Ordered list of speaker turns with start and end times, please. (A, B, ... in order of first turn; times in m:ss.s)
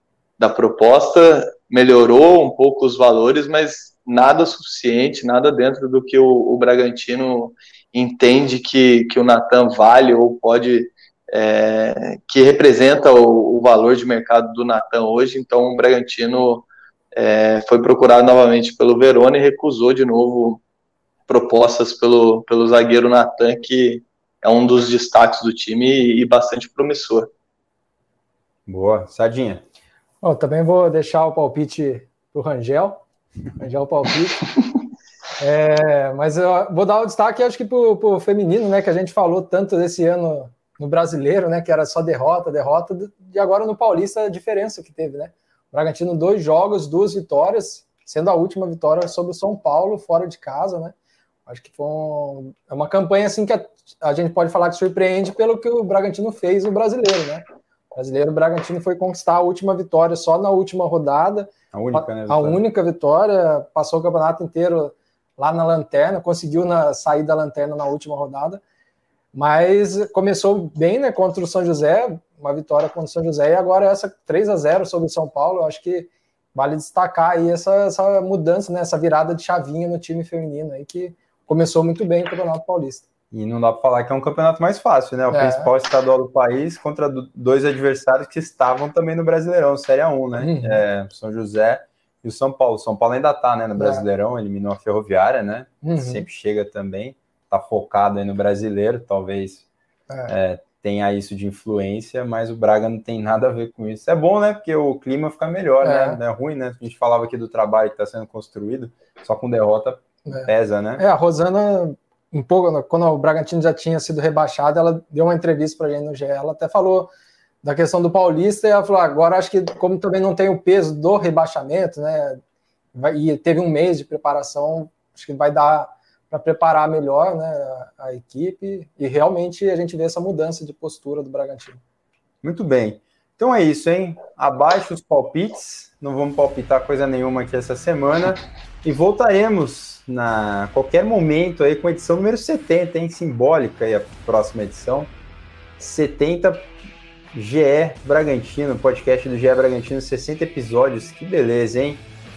0:00.4-0:20.6 A
0:21.3-0:27.3 A
0:28.7-0:29.6 B
0:30.2-0:33.0 C
0:33.5-0:34.4 C
0:35.4-0:50.9 C
0:51.5-1:08.6 C
1:01.7-1:02.6 B
1:09.3-1:23.0 C
1:23.3-1:39.6 B
1:25.3-1:25.7 C
1:30.4-1:30.8 C
1:33.8-1:34.0 C
1:35.8-1:36.2 C
1:40.1-1:40.3 C
1:40.3-1:51.0 B
1:45.8-1:46.2 C
1:50.2-1:57.1 C
1:57.6-2:02.4 C
2:02.9-2:11.8 C
2:12.4-2:25.1 B
2:25.8-2:26.7 B
2:27.3-2:32.0 B